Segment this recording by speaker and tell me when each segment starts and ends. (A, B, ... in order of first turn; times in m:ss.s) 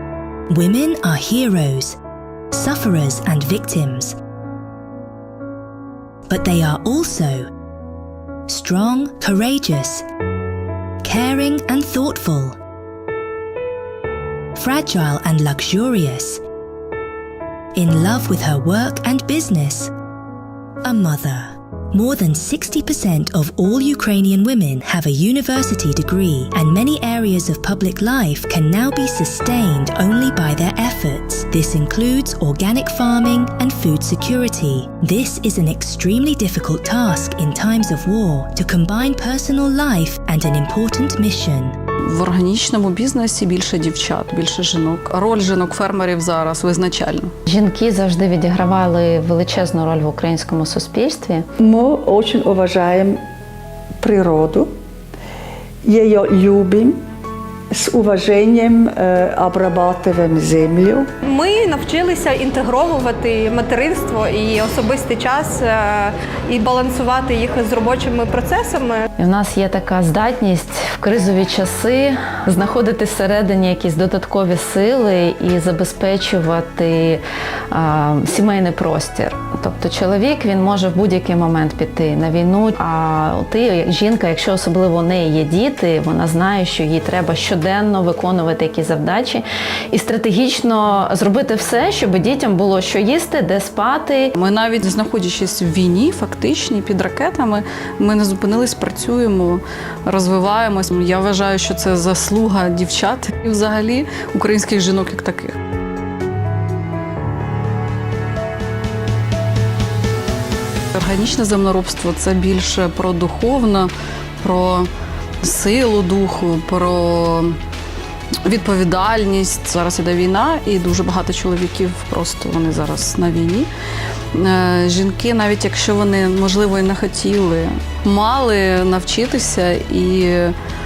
0:00.5-0:02.0 A
0:02.5-0:04.2 A
0:06.3-0:07.5 A
0:08.5-0:10.0 A
0:11.0-0:12.6 A
0:14.5-0:16.4 A
0:17.7-0:19.9 A
0:20.8-0:41.8 A
0:42.1-0:47.3 B
0:47.4-0:51.4 C
0:51.6-0:53.2 D
0:54.0-0:54.7 D
0:55.8-0:57.0 D
0:57.7-1:01.1 D
1:01.2-1:09.0 E
1:09.2-1:34.3 C
1:34.4-1:45.6 B
1:50.9-1:53.9 B
1:54.4-1:54.9 B
1:55.4-1:57.5 B
1:58.4-2:03.7 B
2:04.3-2:10.5 B